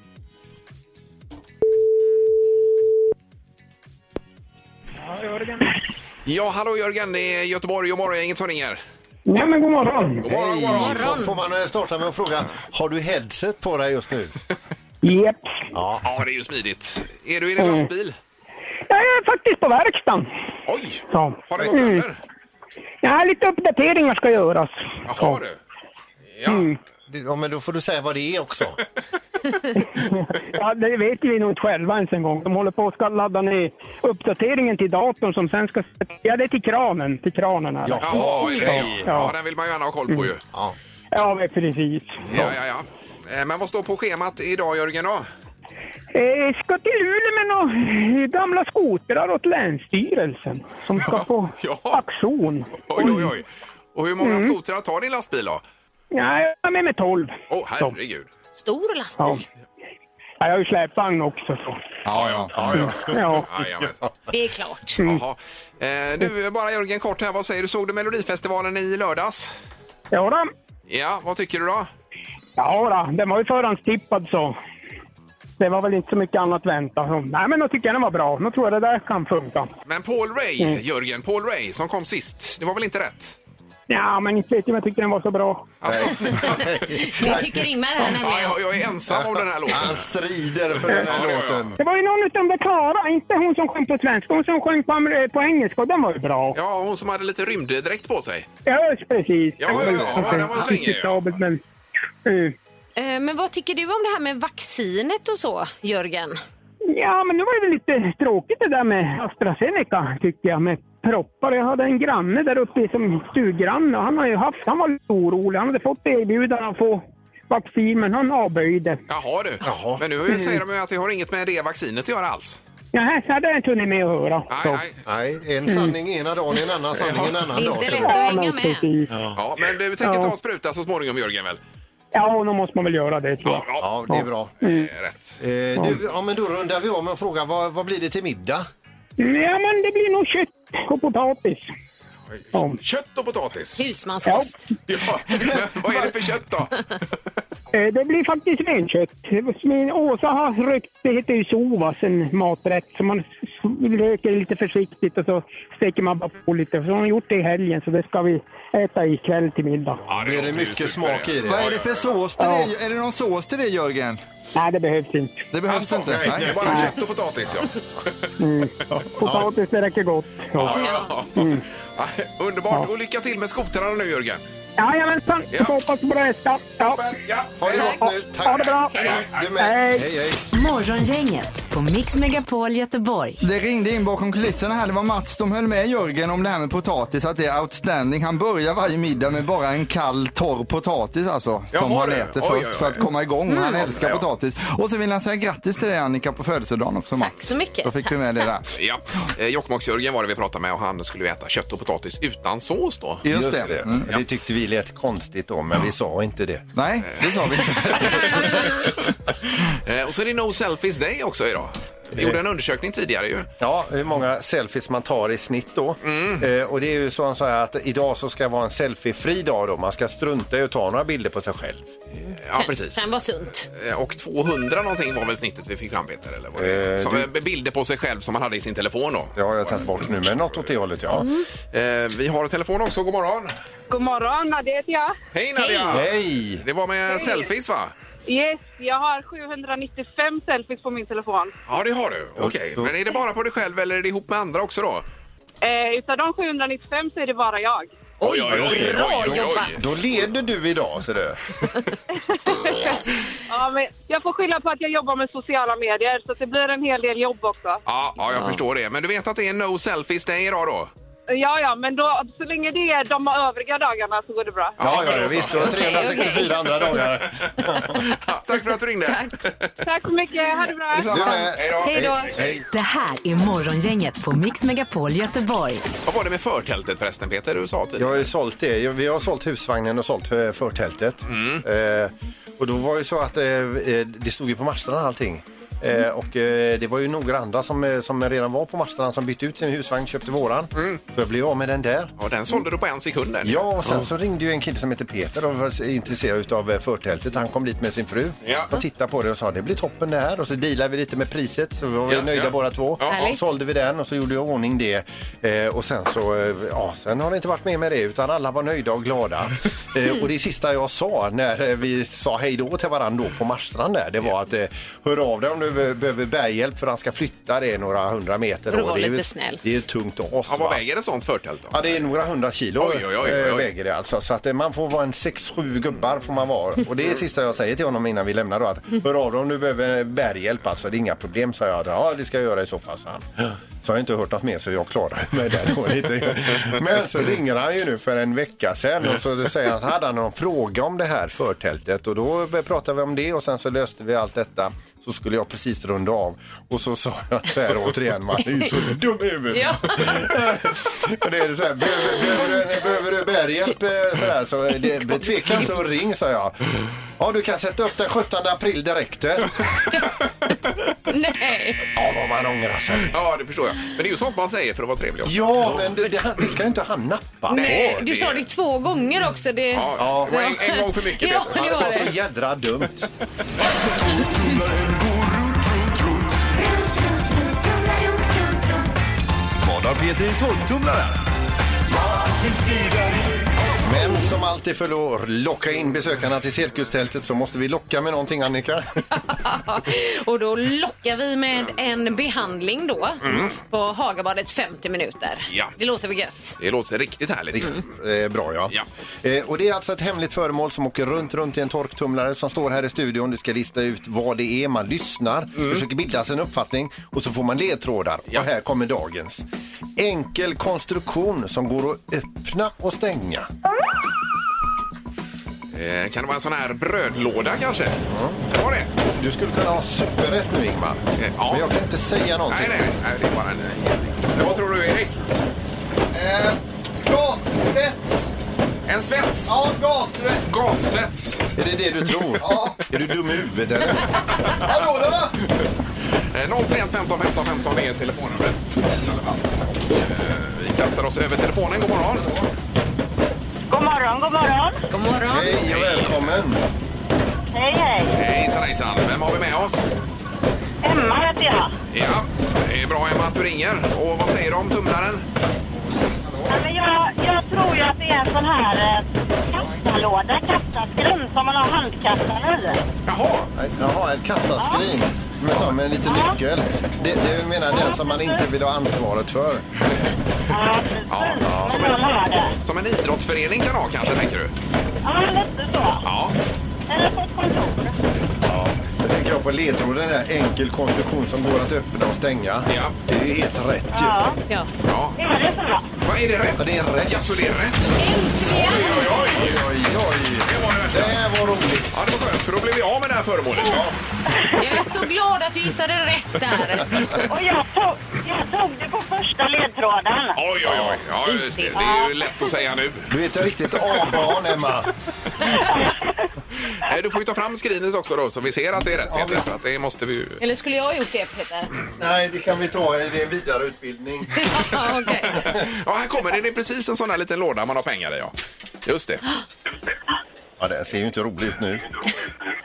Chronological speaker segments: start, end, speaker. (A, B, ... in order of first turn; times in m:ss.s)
0:05.0-0:05.7 A
0:06.2-0:08.8 B
0:09.2-0:10.2 A
0:10.2-0:11.2 B
0:10.2-0:14.3 C
0:10.7-0:11.3 D
0:15.0-0:15.7 A
0:15.7-0:16.0 C
0:16.0-0:18.2 B
0:17.6-0:17.9 A
0:18.9-0:20.3 A
0:20.7-0:22.2 B
0:21.1-0:22.0 A
0:23.0-0:25.4 A
0:25.1-0:25.6 B
0:26.3-0:26.7 B
0:26.5-0:26.8 A
0:27.1-0:28.8 C
0:30.0-0:39.3 A
0:37.8-0:39.1 C
0:38.0-0:40.4 B
0:41.1-0:42.2 A
0:42.2-0:45.3 B
0:46.1-0:53.3 A
0:51.0-0:52.0 B
0:52.8-0:55.6 B
0:54.2-0:54.5 A
0:56.1-0:57.9 A
0:57.5-0:58.3 B
0:58.6-0:59.4 D
0:59.2-0:59.4 A
1:00.4-1:01.8 A
1:02.0-1:02.5 E
1:02.1-1:04.1 B
1:02.5-1:03.9 C
1:03.1-1:03.5 A
1:04.3-1:05.0 D
1:05.0-1:09.5 B
1:10.1-1:10.5 A
1:10.9-1:11.9 B
1:12.6-1:14.6 A
1:15.6-1:19.7 A
1:19.8-1:23.4 B
1:23.9-1:25.7 A
1:25.8-1:26.9 B
1:25.8-1:27.5 C
1:26.3-1:28.6 D
1:28.0-1:30.1 B
1:29.1-1:31.8 C
1:30.7-1:31.7 B
1:30.9-1:31.1 A
1:31.8-1:36.6 A
1:36.5-1:38.5 B
1:38.6-1:41.6 A
1:39.6-1:41.2 B
1:42.2-1:42.5 A
1:43.0-1:46.4 D
1:46.9-1:59.0 A
1:59.1-2:02.6 B
1:59.6-2:00.0 C
2:00.3-2:00.6 A
2:02.9-2:04.8 A
2:04.5-2:05.0 B
2:05.0-2:08.2 C
2:05.6-2:05.9 A
2:07.0-2:07.6 B
2:07.5-2:08.9 D
2:07.9-2:09.1 A
2:09.3-2:11.6 B
2:10.0-2:10.3 A
2:12.1-2:14.9 A
2:13.4-2:13.9 B
2:13.8-2:14.5 C
2:14.6-2:15.3 B
2:15.4-2:18.7 C
2:19.2-2:21.7 A
2:22.3-2:23.8 B
2:22.5-2:22.8 A
2:23.8-2:24.7 D
2:24.2-2:24.6 A
2:24.9-2:26.8 B
2:27.7-2:40.0 A
2:40.1-2:41.9 B
2:40.1-2:41.8 C
2:41.4-2:44.2 E
2:42.4-2:42.7 A
2:44.5-2:45.5 A
2:45.5-2:46.9 E
2:45.7-2:48.3 B
2:45.8-2:46.9 C
2:48.4-2:50.8 A
2:50.6-2:54.4 B
2:50.7-2:51.1 D
2:51.4-2:51.6 A
2:54.8-2:57.2 A
2:55.5-2:55.8 B
2:56.9-2:58.0 B
2:57.6-3:00.4 C
2:57.8-2:59.0 A
2:58.9-2:59.4 B
2:59.5-3:00.1 A
3:00.5-3:03.4 F
3:03.4-3:18.7 E
3:11.7-3:13.1 B
3:13.5-3:13.9 D
3:13.9-3:14.2 B
3:17.2-3:18.1 D
3:18.7-3:23.2 B
3:23.2-3:24.1 E
3:23.3-3:26.6 C
3:26.7-3:28.8 E
3:27.2-3:28.8 B
3:29.7-3:33.5 B
3:32.1-3:32.4 C
3:33.6-3:41.9 C
3:36.0-3:36.4 B
3:42.3-3:43.0 B
3:42.6-3:43.7 D
3:43.7-3:50.6 B
3:46.5-3:47.3 C
3:49.3-3:51.3 C
3:51.7-3:53.5 B
3:53.9-3:55.1 G
3:55.3-3:57.9 B
3:55.9-3:56.6 C
3:57.1-3:57.5 G
3:58.2-4:01.5 G
4:01.7-4:05.0 B
4:02.4-4:03.0 C
4:05.6-4:07.9 G
4:08.2-4:09.7 D
4:08.2-4:09.9 B
4:08.5-4:11.4 C
4:12.3-4:17.8 G
4:17.8-4:20.9 B
4:21.3-4:25.0 G
4:24.8-4:27.0 B
4:24.8-4:28.0 C
4:25.4-4:26.5 D
4:27.6-4:29.8 B
4:29.1-4:29.3 D
4:29.8-4:32.2 G
4:30.9-4:32.3 B
4:31.1-4:32.6 C
4:32.7-4:35.8 F
4:36.0-4:38.3 B
4:38.0-4:52.1 C
4:41.3-4:41.6 B
4:52.2-4:54.1 B
4:53.4-5:20.8 C
4:58.4-4:58.7 B
5:02.1-5:03.1 B
5:03.1-5:03.4 D
5:18.7-5:19.6 D
5:20.5-5:22.0 B
5:21.7-5:56.6 C
5:22.8-5:23.7 B
5:49.5-5:50.3 D
5:57.2-5:59.5 C
6:01.1-6:01.8 D
6:01.9-6:03.2 C
6:03.1-6:05.9 B
6:05.2-6:08.0 C
6:07.5-6:12.1 D
6:07.5-6:08.4 B
6:09.7-6:11.6 B
6:10.0-6:10.4 C
6:11.4-6:13.1 C
6:14.0-6:16.3 H
6:19.7-6:20.9 H
6:22.2-6:23.3 H
6:23.8-6:28.9 C
6:29.1-6:36.6 D
6:33.2-6:33.5 B
6:36.6-6:37.8 B
6:37.5-6:49.4 C
6:45.6-6:45.8 B
6:50.0-6:53.5 C
6:55.7-6:58.9 B
6:58.1-6:58.4 C
6:59.0-7:02.8 C
7:01.2-7:01.7 B
7:02.5-7:05.2 B
7:06.1-7:08.3 E
7:08.8-7:09.5 B
7:09.5-7:10.4 E
7:10.4-7:11.4 B
7:11.6-7:14.5 C
7:12.4-7:12.8 E
7:14.5-7:15.4 E
7:16.3-7:22.4 B
7:22.1-7:22.5 C
7:23.7-7:24.8 I
7:24.9-7:25.6 D
7:25.3-7:26.6 C
7:25.6-7:26.3 B
7:27.5-7:28.2 I
7:28.1-7:29.9 B
7:30.8-7:31.7 I
7:31.9-7:35.2 B
7:36.0-7:36.5 E
7:36.5-7:42.8 I
7:43.1-7:43.5 B
7:43.6-7:49.6 C
7:44.6-7:44.9 I
7:46.0-7:46.4 I
7:47.7-7:48.4 I
7:50.5-7:52.5 I
7:51.1-7:54.5 B
7:55.0-7:56.0 I
7:56.0-7:56.3 B
7:56.9-7:58.0 I
7:58.5-8:04.2 C
8:02.7-8:03.0 B
8:03.9-8:04.4 I
8:04.8-8:05.2 B
8:05.2-8:05.9 I
8:06.0-8:09.6 B
8:06.6-8:07.5 C
8:08.0-8:09.2 D
8:09.0-8:12.0 C
8:10.4-8:11.2 B
8:11.9-8:13.8 B
8:13.6-8:13.9 C
8:14.6-8:17.2 D
8:17.3-8:20.4 I
8:20.4-8:23.1 B
8:20.6-8:21.0 C
8:21.2-8:21.8 D
8:21.7-8:22.1 I
8:23.1-8:24.9 C
8:25.5-8:26.0 I
8:26.8-8:30.4 B
8:28.8-8:29.4 C
8:30.4-8:31.7 D
8:32.0-8:34.4 C
8:34.4-8:35.5 D
8:35.4-8:38.3 B
8:38.8-8:39.2 B
8:40.6-8:41.9 C